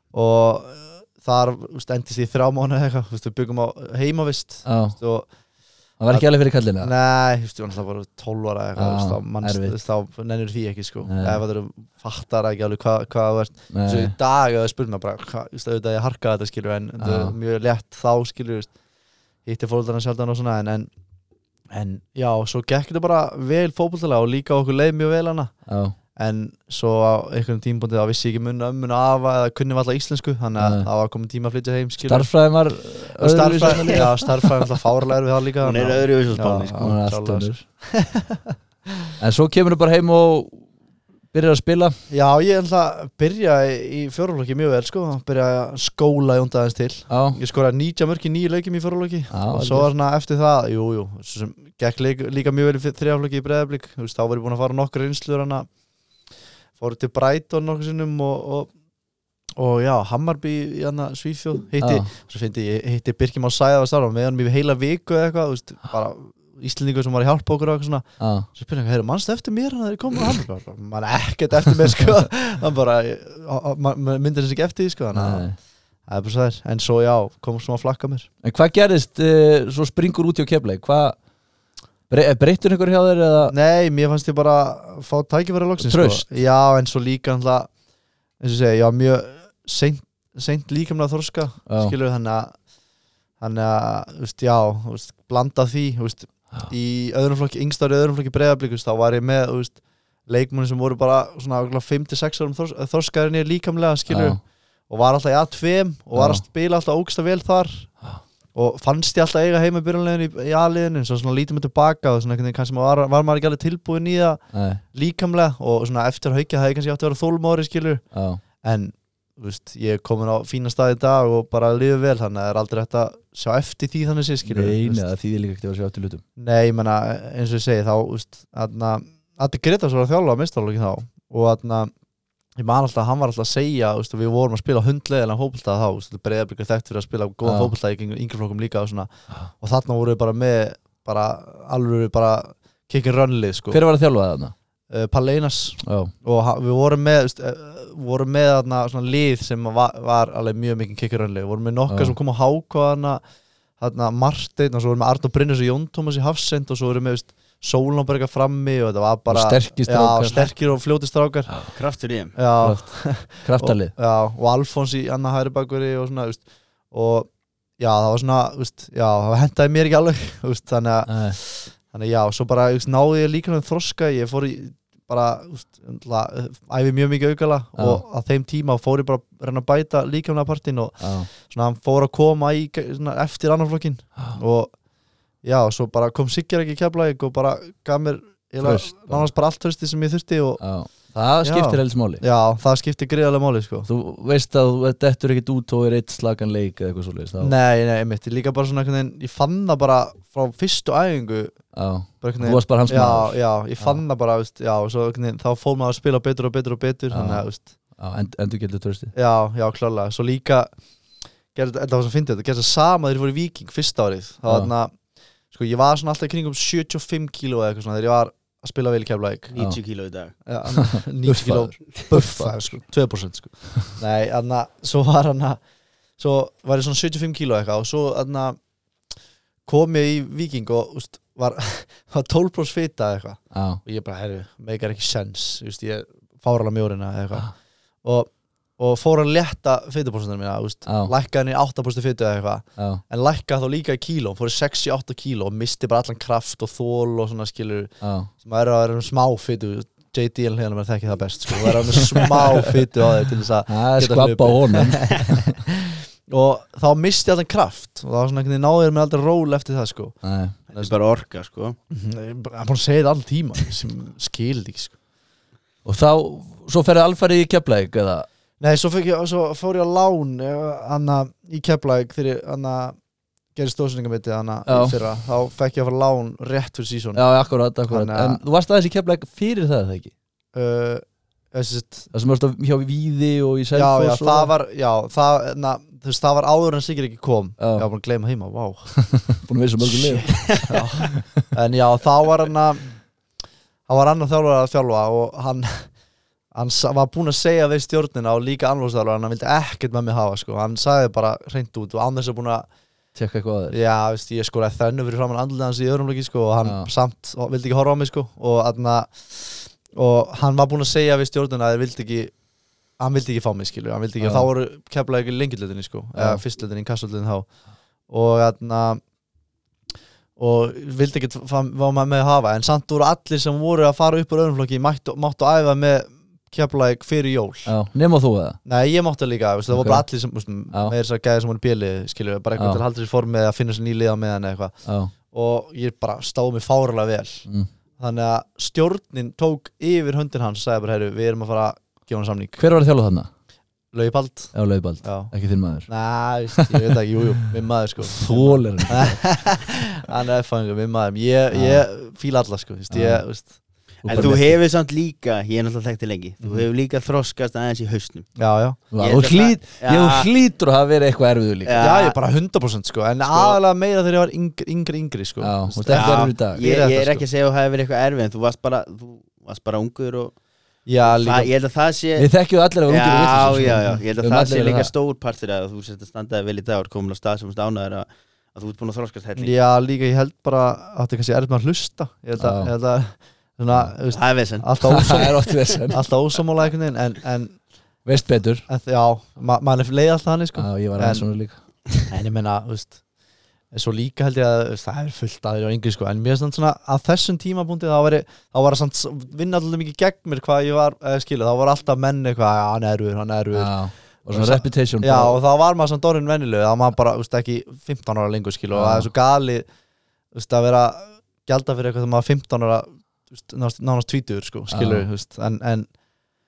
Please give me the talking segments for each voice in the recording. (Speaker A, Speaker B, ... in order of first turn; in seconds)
Speaker A: 0.1-5.3, 6.8-18.7, 19.4-20.9, 21.7-25.5, 26.1-32.3, 33.2-39.1, 42.1-55.7, 56.8-58.7, 59.6-75.5, 76.1-78.3, 83.5-87.7, 88.4-92.5, 93.4-107.9, 108.5-118.0, 118.6-125.0, 126.4-131.9, 132.6-143.8, 144.9-153.2, 153.8-161.5, 162.3-184.7, 185.4-190.6, 191.4-193.9, 197.4-201.6, 202.2-207.7, 209.1-210.7, 211.5-214.9, 215.5-219.5, 220.4-225.6, 226.2-228.6, 229.7-237.5, 238.0-260.2, 261.9-264.9, 268.6-273.0, 273.5-277.2, 277.9-278.4, 280.5-282.1, 283.7-289.1, 290.0-292.9, 293.9-295.9, 296.5-302.6, 303.7-312.3, 313.0-317.5, 318.1-319.0, 320.4-327.7, 328.6-334.7, 335.3-337.4, 338.0-342.6, 343.9-345.3, 345.9-353.5, 354.1-354.4, 358.4-358.8, 361.8-367.2, 370.9-371.5, 379.4-385.3, 385.9-387.6, 388.7-391.3, 392.1-393.0, 393.7-403.8, 404.3-409.6, 410.3-415.9
Speaker B: 4.6-5.0, 6.0-6.9, 8.8-9.8, 11.1-11.4, 13.7-14.1, 17.0-17.3, 25.7-25.9, 30.6-30.9, 32.0-34.5, 36.8-37.6, 39.2-40.6, 41.3-41.9, 47.1-47.4, 49.3-49.9, 61.8-62.1, 68.2-68.5, 75.1-75.6, 78.4-81.2, 82.1-83.5, 85.8-86.3, 91.7-91.9, 104.1-104.4, 106.1-106.4, 114.5-114.8, 118.1-118.4, 124.4-126.2, 137.4-137.7, 143.7-144.5, 145.8-146.1, 151.9-152.1, 159.3-160.5, 162.6-163.9, 171.1-171.4, 177.8-178.0, 181.0-181.3, 188.6-189.3, 190.6-192.2, 193.9-197.5, 201.7-204.0, 207.1-209.1, 220.8-222.5, 233.5-233.8, 240.8-241.1, 242.8-243.0, 248.0-248.3, 253.7-255.5, 260.2-260.6, 265.8-268.3, 274.7-275.0, 277.1-280.1, 282.1-284.5, 287.6-287.9, 289.0-290.7, 303.1-303.8, 306.6-306.9, 314.2-314.5, 316.1-316.4, 327.6-328.6, 329.7-330.1, 332.6-332.8, 334.8-335.1, 342.6-343.3, 344.5-345.9, 346.5-346.9, 348.0-349.3, 351.5-351.8, 352.9-353.2, 354.0-354.5, 358.9-361.8, 365.4-366.6, 372.2-374.9, 382.4-382.7, 384.8-386.0, 388.0-388.6, 390.6-391.6, 403.5-405.4, 408.7-409.1, 414.7-415.1
Speaker C: 35.6-36.9, 161.7-162.3, 219.5-220.3, 260.7-261.8, 290.2-290.7, 354.0-358.3, 358.9-360.3, 361.6-362.2, 363.3-363.6, 365.9-370.3, 371.0-372.3, 372.9-379.5, 384.1-385.4